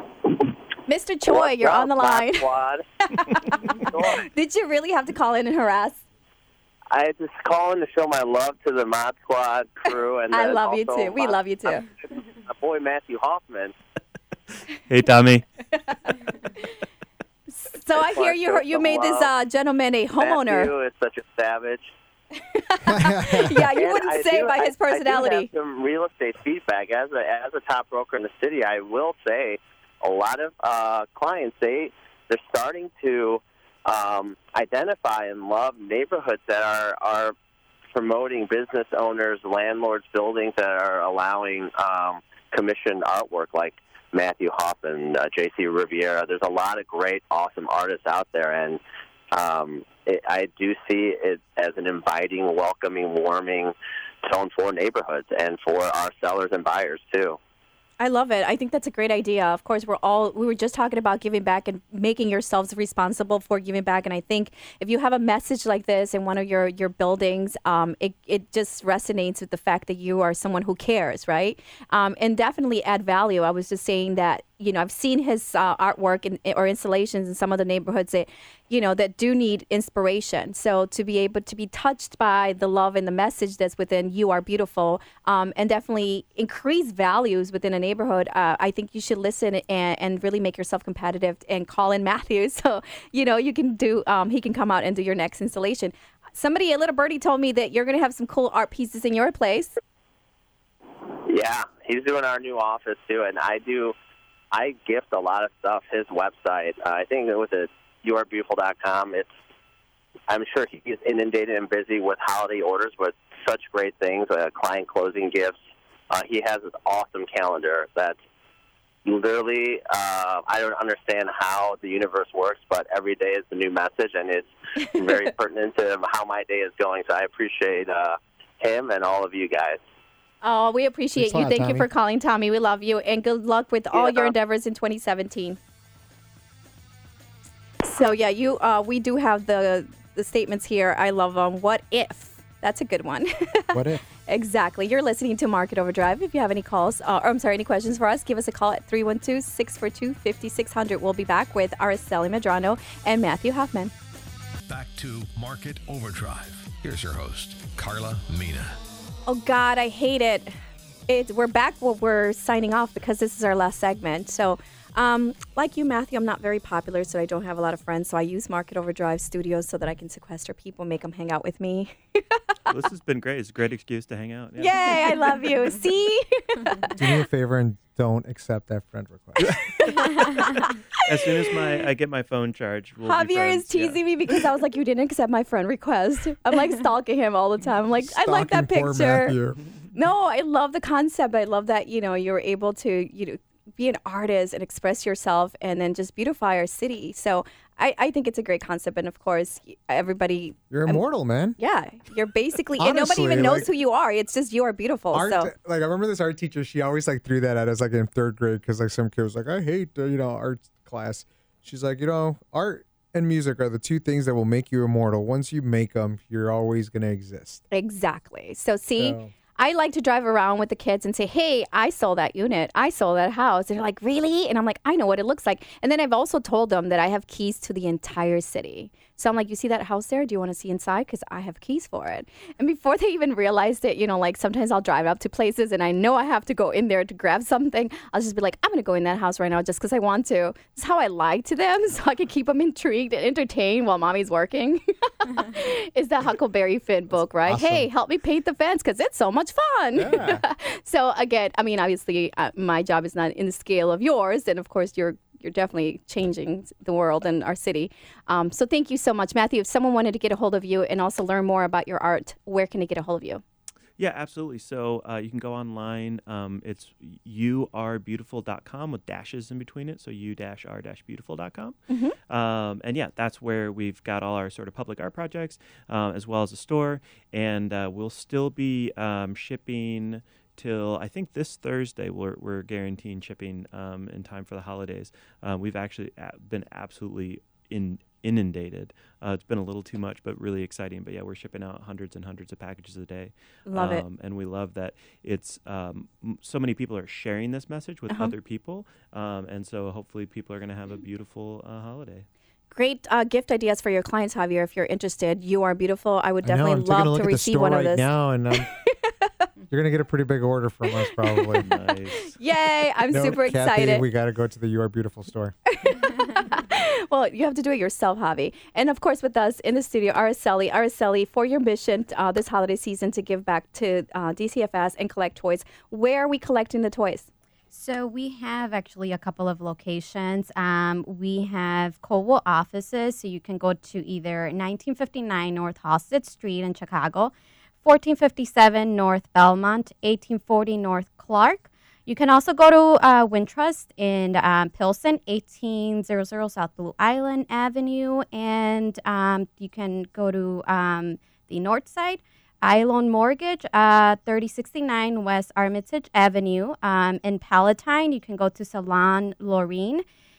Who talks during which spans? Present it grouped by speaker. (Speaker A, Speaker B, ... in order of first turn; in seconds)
Speaker A: 0.9-2.5, 3.1-6.0, 10.3-11.9, 15.8-16.7, 17.5-20.7, 22.4-25.5, 58.0-99.8, 130.4-135.6, 137.8-153.9, 159.3-160.5, 161.1-172.4, 174.6-177.0, 179.4-181.5, 183.0-189.3, 189.9-201.0, 201.6-205.5, 217.7-263.4, 271.9-272.2, 293.7-294.0, 302.7-309.3, 311.2-314.0, 315.8-327.3
Speaker B: 1.3-4.3, 6.9-13.7, 17.9-19.3, 20.2-21.9, 23.7-37.4, 37.9-48.8, 49.3-57.4, 101.3-103.9, 104.5-109.3, 110.3-115.6, 116.1-118.2, 119.1-129.8, 133.9-134.3
Speaker C: 14.9-15.5, 172.7-175.3, 181.0-184.0, 264.0-302.3, 311.6-312.3
Speaker D: 22.8-23.7, 131.2-131.9, 143.7-144.0, 177.0-179.8, 188.0-189.6, 200.7-201.6, 202.8-203.7, 205.1-217.6, 219.0-219.3, 247.4-247.9, 250.0-250.4, 306.4-308.7, 309.7-311.7, 313.1-315.5
Speaker E: 154.7-158.8
Speaker F: 327.7-360.0